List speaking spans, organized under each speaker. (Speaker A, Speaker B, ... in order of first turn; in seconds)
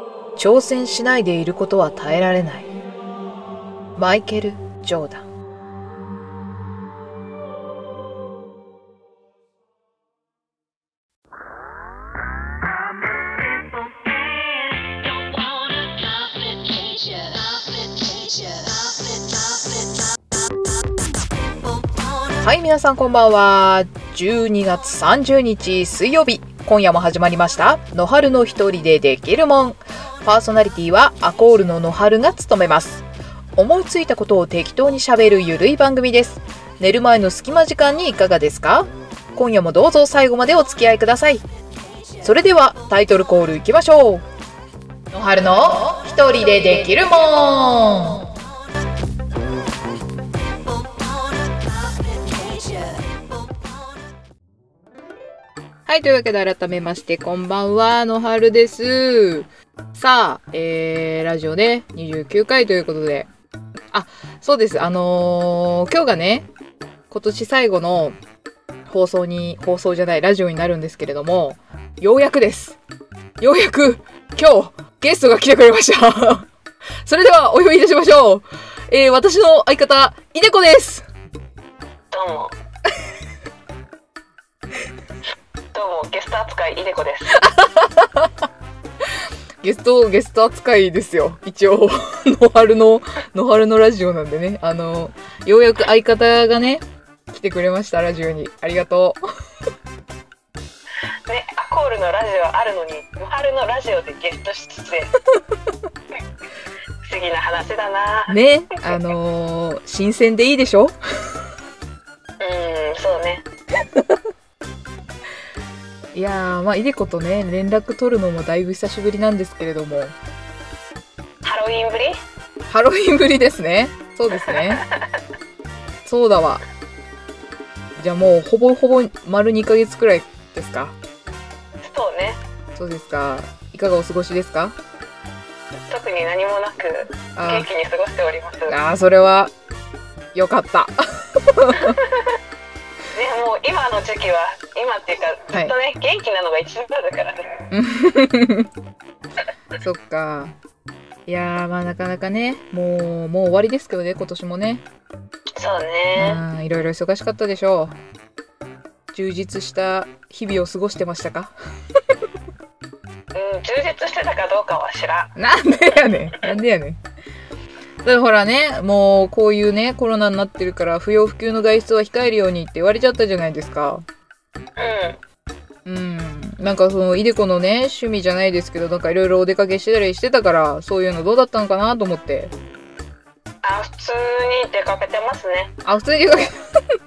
Speaker A: 0.3-2.7, 4.0-5.3, 22.4-33.1, 33.6-41.4, 42.2-44.2, 45.1-48.3, 55.9-63.3, 63.9-66.5, 67.1-68.2, 68.9-72.8, 73.4-76.5, 77.0-81.1, 87.4-88.3, 89.6-99.2, 108.3-111.0, 116.1-120.2, 122.7-124.8, 126.0-126.6, 128.0-131.0, 132.8-134.8, 137.4-137.7, 138.7-139.5, 140.3-142.0, 147.7-148.7, 149.8-150.6, 151.3-154.8, 156.2-157.9, 159.1-161.5, 165.4-167.0, 168.0-174.0, 175.8-182.5, 185.8-186.6
Speaker B: 15.1-18.6, 82.1-82.5, 85.7-87.4, 101.3-105.1, 107.0-108.3, 112.4-113.5, 121.4-122.2, 124.5-125.2, 131.8-132.4, 135.9-138.8, 141.8-142.4, 143.2-147.5, 155.6-156.4, 163.3-165.3, 174.8-175.2, 183.6-185.8